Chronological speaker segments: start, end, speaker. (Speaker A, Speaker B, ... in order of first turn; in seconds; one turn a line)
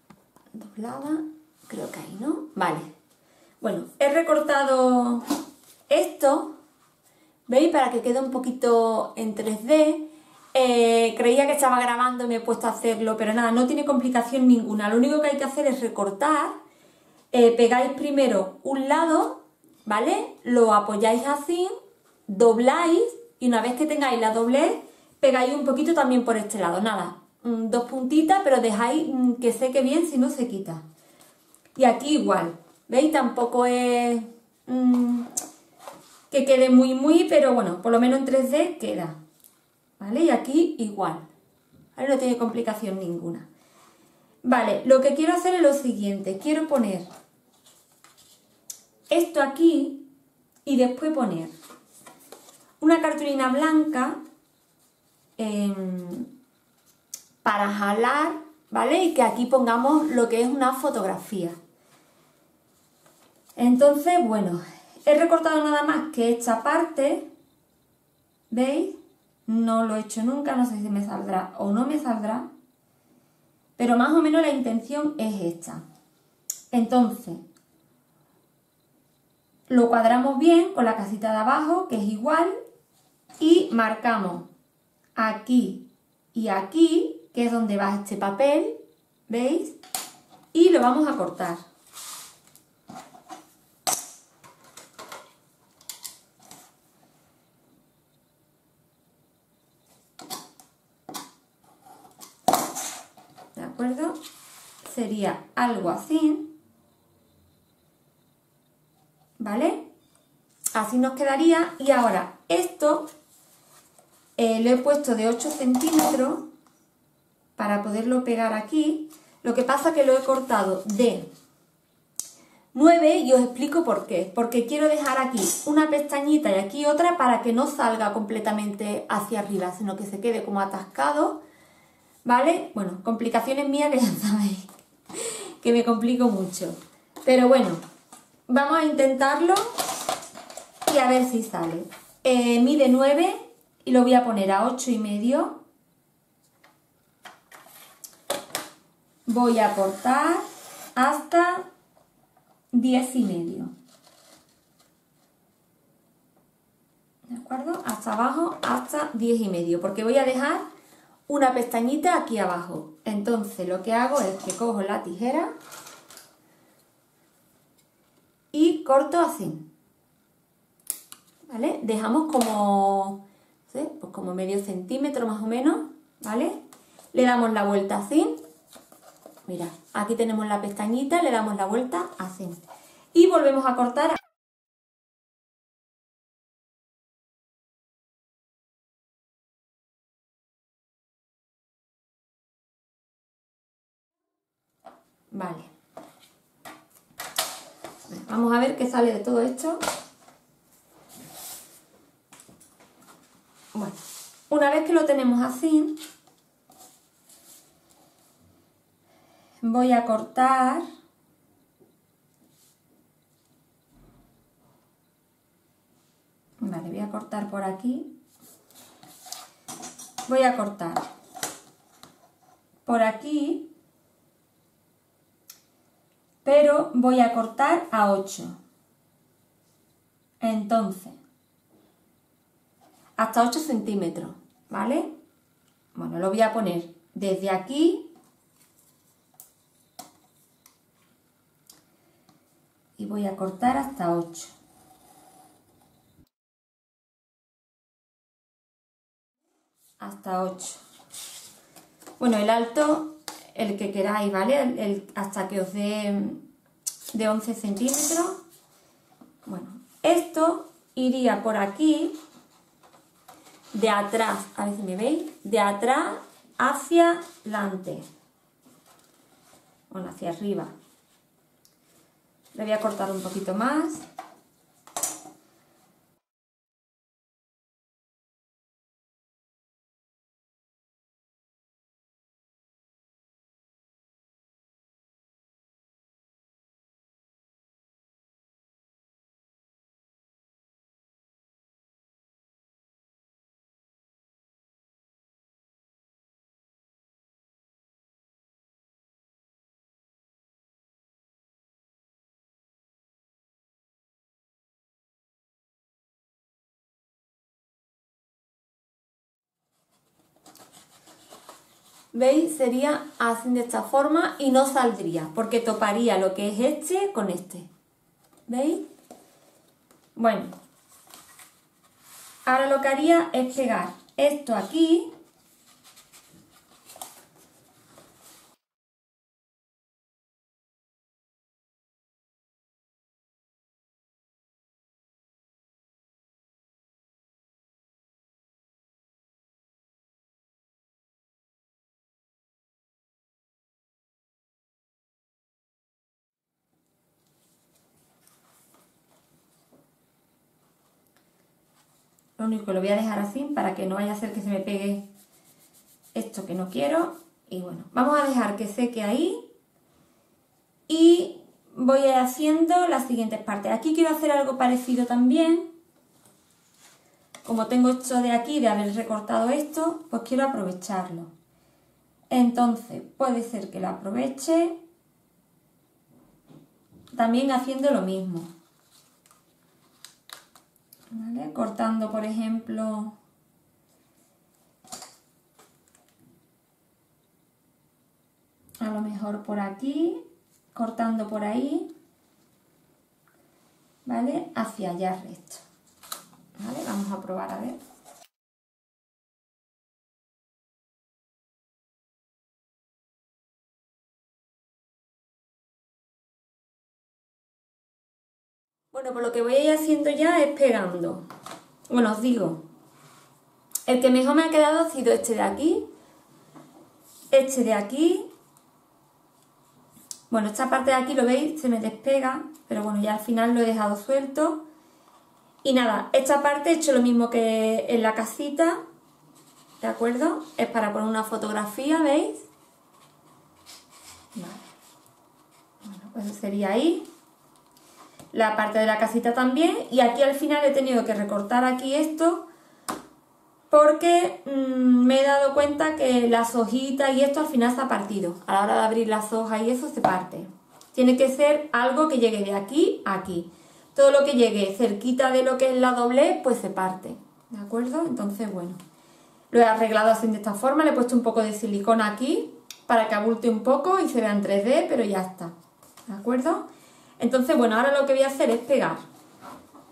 Speaker A: 0.5-2.9
Speaker A: 3.6-5.3
Speaker A: 5.9-6.6
Speaker A: 7.5-16.6
Speaker A: 17.3-21.7
Speaker A: 22.3-30.8
Speaker A: 31.8-35.3
Speaker A: 36.3-39.2
Speaker A: 40.0-41.2
Speaker A: 42.0-43.5
Speaker A: 44.4-47.1
Speaker A: 49.1-50.0
Speaker A: 50.6-51.5
Speaker A: 52.8-54.2
Speaker A: 55.4-56.3
Speaker A: 57.4-61.6
Speaker A: 63.5-67.3
Speaker A: 68.5-72.5
Speaker A: 73.8-75.8
Speaker A: 76.7-77.4
Speaker A: 79.7-82.6
Speaker A: 83.4-84.5
Speaker A: 85.2-88.8
Speaker A: 89.3-89.8
Speaker A: 90.5-91.6
Speaker A: 103.5-104.2
Speaker A: 104.8-106.5
Speaker A: 109.4-109.9
Speaker A: 110.7-113.1
Speaker A: 114.4-116.5
Speaker A: 117.6-121.3
Speaker A: 122.7-131.4
Speaker A: 132.2-137.8
Speaker A: 138.5-139.8
Speaker A: 140.9-145.6
Speaker A: 149.2-151.7
Speaker A: 152.7-153.7
Speaker A: 157.3-160.7
Speaker A: 161.3-165.5
Speaker A: 168.5-169.6
Speaker A: 171.5-176.6
Speaker A: 177.1-178.4
Speaker A: 179.4-182.6
Speaker A: 183.1-184.2
Speaker A: 195.3-195.7
Speaker A: 198.1-199.8
Speaker A: 203.7-206.0
Speaker A: 209.6-210.8
Speaker A: 216.6-218.1
Speaker A: 220.3-221.1
Speaker A: 222.8-223.7
Speaker A: 226.4-228.6
Speaker A: 230.4-231.2
Speaker A: 233.2-235.1
Speaker A: 235.9-238.1
Speaker A: 243.0-244.5
Speaker A: 250.0-250.8
Speaker A: 252.2-256.4
Speaker A: 257.1-258.4
Speaker A: 259.4-262.1
Speaker A: 263.7-268.1
Speaker A: 269.9-270.7
Speaker A: 272.5-274.1
Speaker A: 312.1-317.7
Speaker A: 318.5-318.8
Speaker A: 320.1-320.5
Speaker A: 322.4-325.1
Speaker A: 352.4-355.1
Speaker A: 356.1-359.4
Speaker A: 360.9-365.7
Speaker A: 367.4-371.3
Speaker A: 372.3-374.8
Speaker A: 377.1-378.5
Speaker A: 381.1-383.1
Speaker A: 388.8-390.2
Speaker A: 390.7-391.9
Speaker A: 394.1-395.6
Speaker A: 396.6-397.8
Speaker A: 408.9-411.2
Speaker A: 411.9-412.6
Speaker A: 413.9-415.9
Speaker A: 417.3-418.3
Speaker A: 420.3-424.6
Speaker A: 425.6-428.8
Speaker A: 429.8-432.5
Speaker A: 434.3-434.6
Speaker A: 435.8-437.1
Speaker A: 438.3-442.4
Speaker A: 443.7-458.8
Speaker A: 459.5-465.5
Speaker A: 466.1-466.7
Speaker A: 467.2-469.0